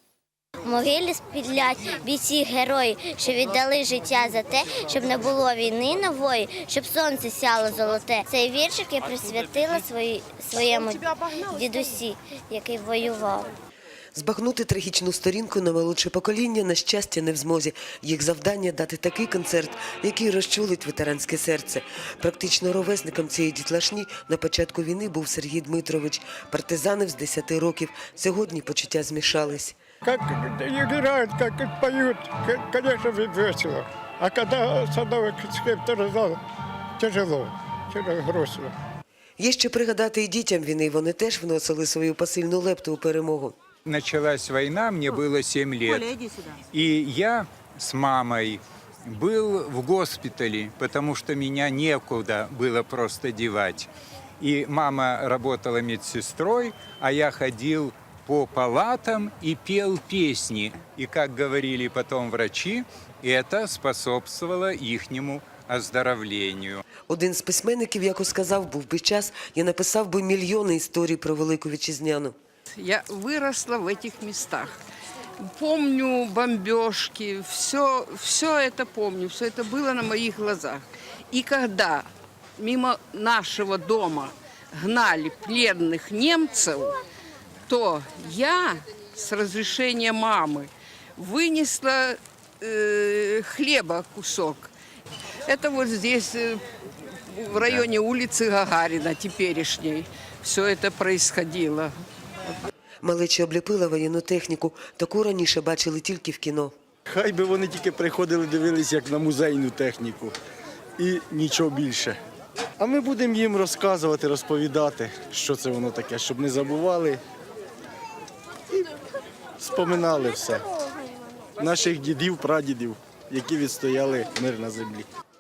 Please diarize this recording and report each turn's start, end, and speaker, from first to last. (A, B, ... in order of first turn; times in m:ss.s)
0:00.6-0:13.5 A
0:14.1-0:29.8 B
0:30.3-0:36.4 C
0:37.0-0:38.7 C
0:39.4-0:43.6 B
0:43.9-0:46.2 D
0:46.7-1:06.8 D
1:07.1-1:12.4 B
1:12.8-1:14.7 E
1:15.4-1:22.1 E
1:22.6-1:27.0 E
1:27.7-1:34.7 E
1:35.5-1:36.6 E
1:37.3-1:41.9 E
1:43.0-1:46.7 B
1:47.1-1:50.4 F
1:51.0-1:52.2 F
1:52.8-1:57.2 F
1:59.6-2:00.7 F
2:01.6-2:05.1 F